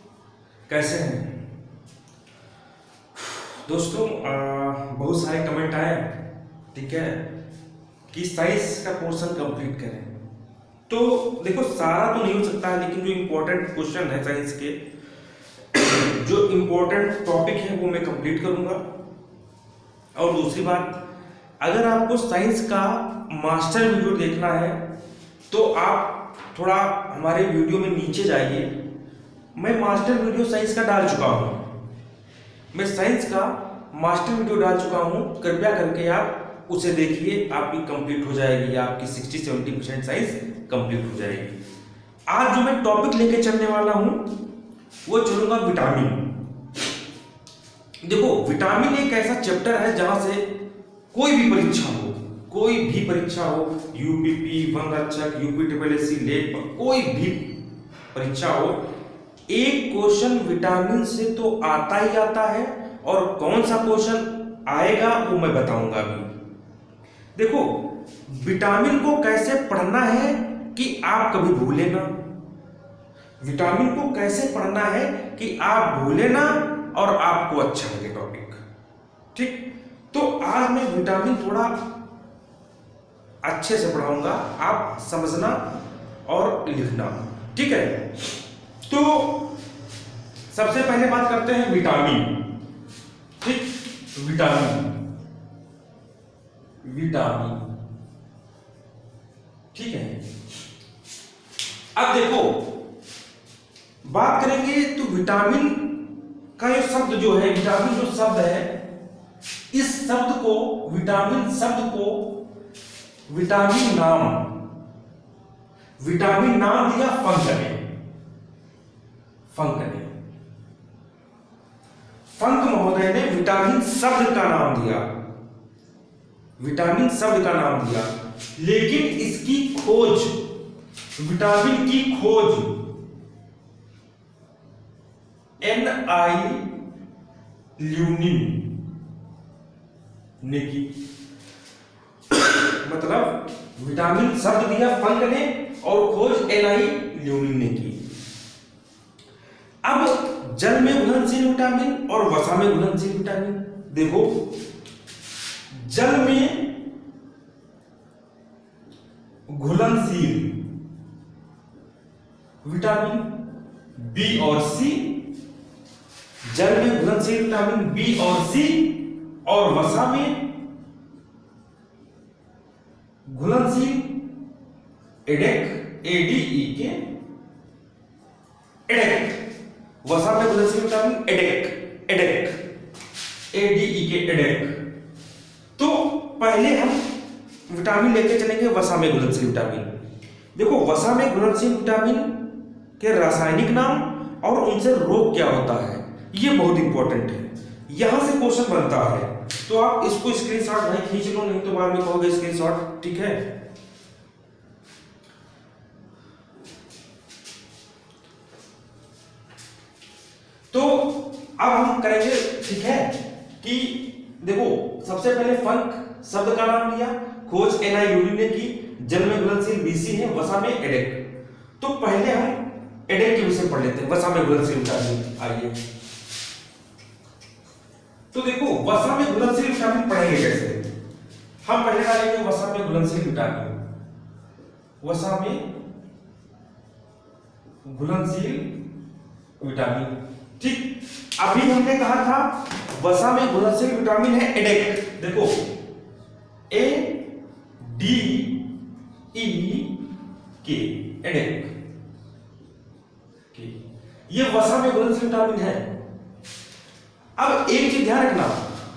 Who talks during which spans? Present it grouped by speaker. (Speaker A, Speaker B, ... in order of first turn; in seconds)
Speaker A: 0.7-1.3, 3.6-6.1, 6.7-7.2, 8.1-10.1, 10.9-14.8, 15.7-18.8, 20.1-21.0, 21.6-24.8, 25.5-28.7, 29.6-31.6, 32.7-41.5, 42.3-44.2, 45.1-46.3, 48.0-50.5, 51.1-57.5, 58.1-58.8, 59.5-66.3, 67.3-72.1, 73.4-78.6, 79.3-81.8, 83.4-85.6, 86.3-88.0, 88.9-89.5, 90.5-92.4, 93.4-94.9, 96.8-97.7, 99.7-100.2, 102.0-102.7, 104.0-106.0, 106.6-108.7, 109.7-112.4, 113.3-114.4, 116.0-117.8, 119.5-120.1, 122.3-125.0, 126.6-130.4, 131.2-132.8, 135.6-136.7, 137.8-138.7, 140.4-140.9, 142.3-148.0, 149.8-154.4, 155.7-156.7, 159.5-160.5, 162.6-163.3, 164.0-165.1, 166.5-170.4, 173.3-174.1, 175.3-177.0, 178.9-179.4, 180.0-182.6, 183.5-184.7, 185.8-187.0, 187.7-189.9, 190.6-192.4, 193.0-203.4, 210.7-221.2, 221.8-225.8, 228.3-230.8, 231.6-233.8, 235.0-235.7, 237.8-238.7, 239.6-245.6, 246.7-247.2, 247.8-248.6, 249.3-250.0, 250.6-251.7, 254.3-255.9, 257.4-258.6